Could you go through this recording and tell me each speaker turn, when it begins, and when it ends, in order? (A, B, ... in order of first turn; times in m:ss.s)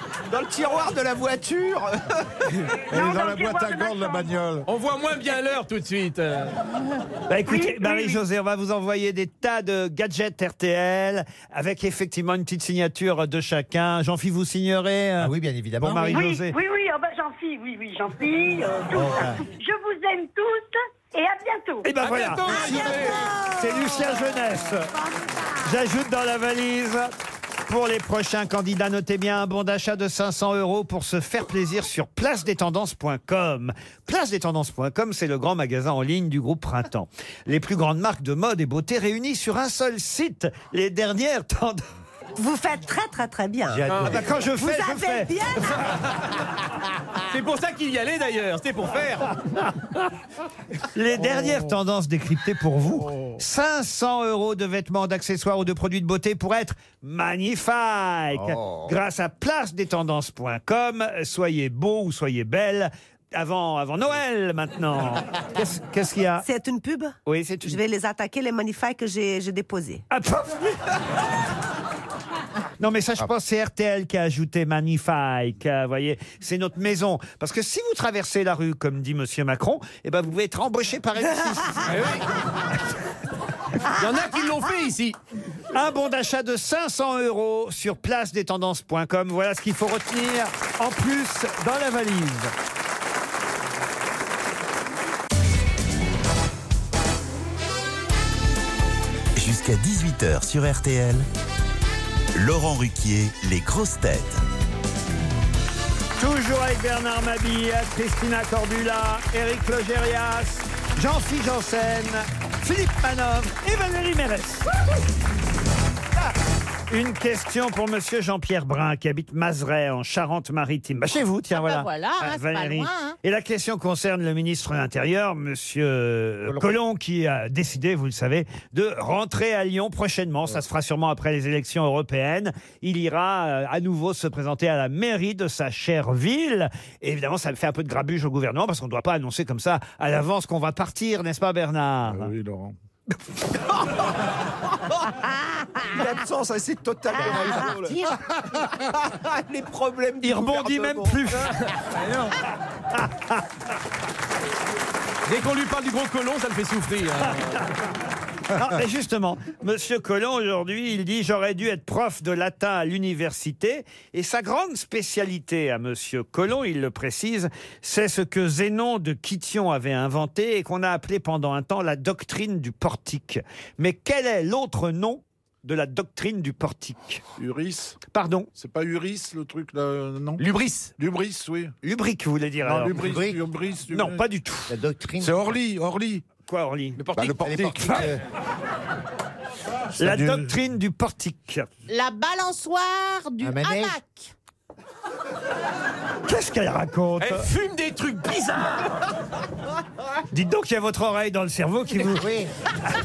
0:00.3-0:02.4 A
0:02.8-0:04.7 B
0:02.9-0:04.4 C
0:04.7-0:06.6 D
0:07.3-0:16.5 E
0:07.5-0:08.2 C
0:15.2-0:16.3 F
0:16.1-0:21.9 C
0:18.9-0:19.4 F
0:21.8-0:23.0 E
0:22.0-0:23.2 D
0:22.5-0:23.3 F
0:22.5-0:24.2 G
0:23.5-0:24.9 E
0:25.1-0:25.5 G
0:25.6-0:27.1 E
0:27.7-0:41.8 E
0:42.4-0:45.8 G
0:43.7-0:44.3 F
0:43.9-0:44.2 D
0:44.0-0:45.3 E
0:47.2-0:49.4 D
0:51.0-1:06.4 E
0:51.2-0:51.8 B
0:53.1-0:53.4 B
0:58.3-0:58.9 F
1:06.4-1:10.0 G
1:07.3-1:07.8 E
1:10.1-1:10.9 E
1:12.8-1:22.0 E
1:21.8-1:22.2 D
1:23.9-1:25.2 D
1:25.7-1:32.5 E
1:39.4-1:41.3 H
1:42.3-1:44.4 H
1:46.2-1:54.7 E
1:56.9-2:22.3 E
2:01.5-2:03.2 I
2:22.1-2:22.8 B
2:23.7-2:24.0 A
2:25.9-2:31.4 A
2:27.1-2:28.0 F
2:27.2-2:27.5 G
2:30.2-2:31.5 E
2:33.0-2:33.4 E
2:35.3-2:37.6 D
2:38.5-2:57.2 E
2:57.4-2:58.0 B
2:58.1-2:58.5 E
2:58.6-3:00.5 B
3:00.4-3:00.9 D
3:01.0-3:01.7 B
3:01.8-3:03.0 E
3:02.6-3:04.2 B
3:02.9-3:03.4 F
3:03.9-3:04.8 E
3:04.7-3:05.4 F
3:05.2-3:06.3 B
3:06.4-3:07.0 E
3:07.0-3:08.0 D
3:07.2-3:08.2 B
3:07.4-3:08.2 F
3:10.0-3:10.5 B
3:10.0-3:11.7 E
3:11.9-3:14.3 I
3:13.4-3:14.0 F
3:16.3-3:17.5 E
3:17.2-3:19.0 D
3:20.3-3:22.3 E
3:22.2-3:22.5 F